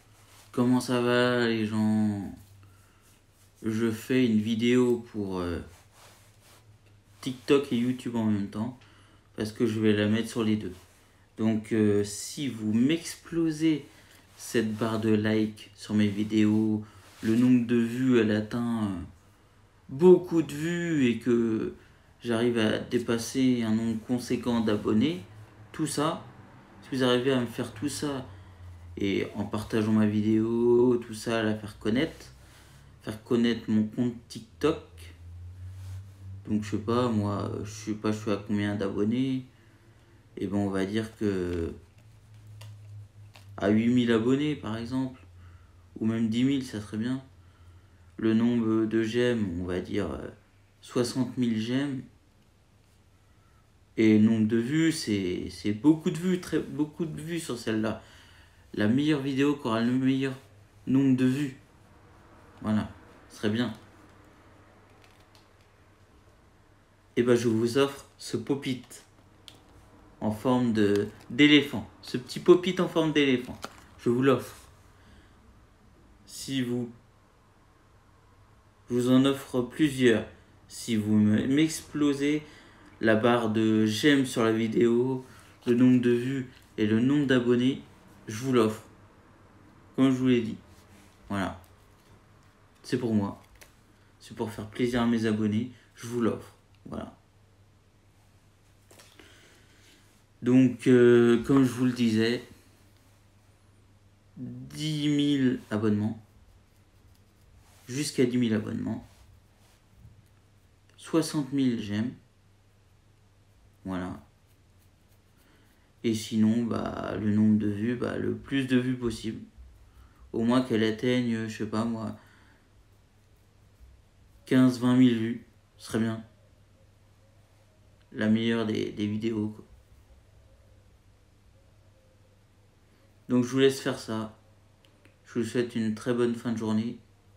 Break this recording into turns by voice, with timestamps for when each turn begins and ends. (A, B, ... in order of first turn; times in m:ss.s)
0:00.5-0:02.4 A
0:03.6-0:05.7 A
0:07.2-0:08.8 A
0:09.4-0:10.8 A
0:11.4-0:19.1 A
0:19.9-0:26.3 A
0:26.8-0:28.3 A
0:29.0-0:32.4 A
0:33.0-0:35.2 A
0:36.4-0:39.5 A
0:40.4-0:41.8 A
0:43.6-0:45.3 A
0:46.0-0:47.2 A
0:48.2-0:52.0 A
0:54.0-0:58.0 A
0:58.7-1:01.6 A
1:02.6-1:03.8 A
1:07.2-1:09.1 A
1:10.2-1:14.6 A
1:16.3-1:16.9 A
1:18.9-1:22.5 A
1:23.0-1:28.9 A
1:30.0-1:30.6 A
1:31.3-1:31.6 A
1:32.8-1:33.4 A
1:34.2-1:37.2 A
1:40.4-1:42.5 A
1:44.4-1:46.2 A
1:47.9-1:49.1 A
1:51.0-1:52.2 A
1:53.8-1:54.2 A
1:56.0-1:59.4 A
2:00.3-2:02.2 A
2:04.5-2:06.2 A
2:08.1-2:09.7 A
2:13.3-2:14.4 A
2:15.2-2:17.0 A